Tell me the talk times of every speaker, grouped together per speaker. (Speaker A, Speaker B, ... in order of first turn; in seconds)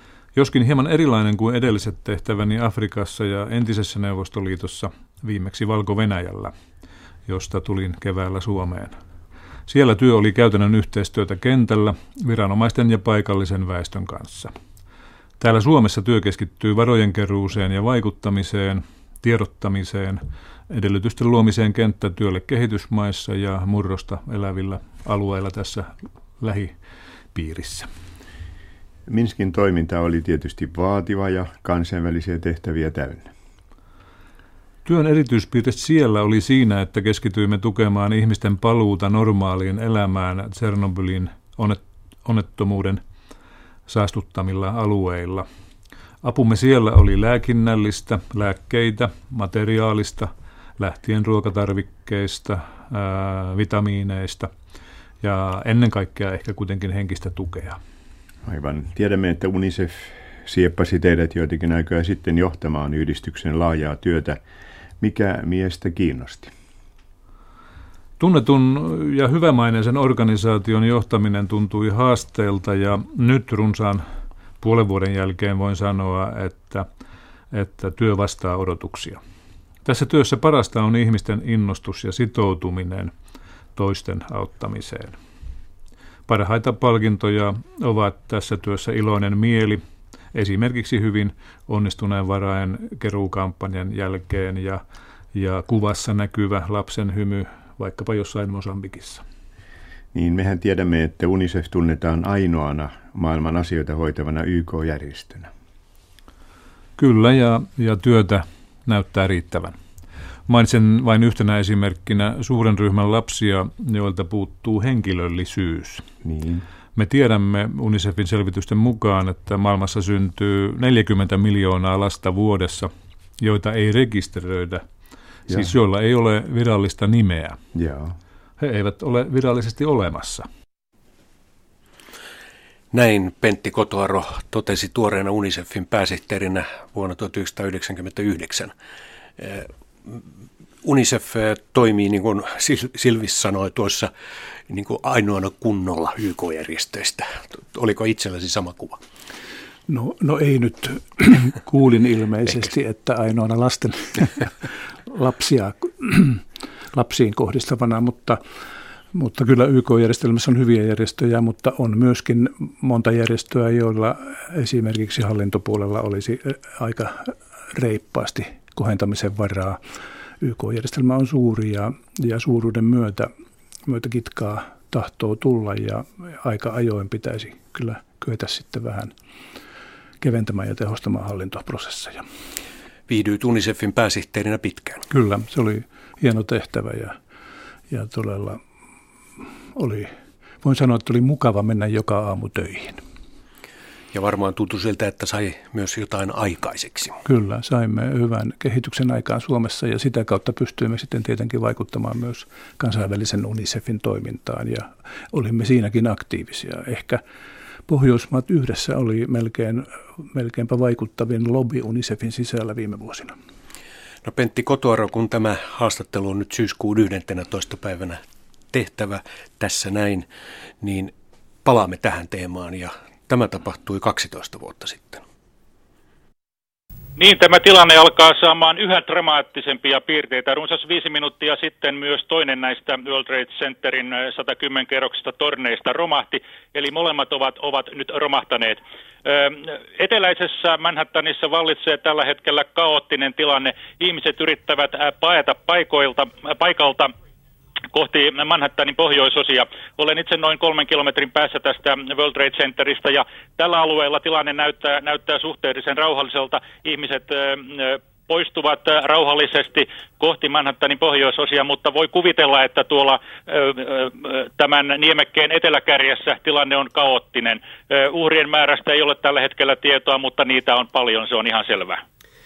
Speaker A: 0.3-6.5, 7.3-8.9, 9.7-14.5, 15.4-26.8, 27.3-27.9, 34.9-43.0, 43.9-45.5, 46.2-54.5, 55.2-57.8, 68.2-74.0, 74.6-76.9, 77.5-79.2, 79.8-83.1, 83.8-85.2, 86.3-89.8, 90.3-94.8, 95.3-99.2, 107.0-109.8, 110.5-116.1, 117.0-124.8, 125.5-127.6, 128.6-130.5
Speaker B: 29.1-33.3, 58.5-64.4, 65.0-66.5, 100.1-105.5, 116.2-116.6, 127.7-128.2
Speaker C: 132.9-138.7, 139.4-140.2, 140.8-144.1, 144.7-149.0, 183.1-185.1, 194.1-197.2, 214.2-218.2, 218.7-220.3, 220.8-221.1, 221.7-225.2
Speaker D: 149.9-158.4, 159.1-169.8, 170.4-173.3, 173.9-179.1, 180.2-182.2, 185.1-187.2, 187.9-188.6, 189.4-193.0, 197.2-207.2, 207.9-213.3
Speaker E: 227.2-247.1, 247.9-272.0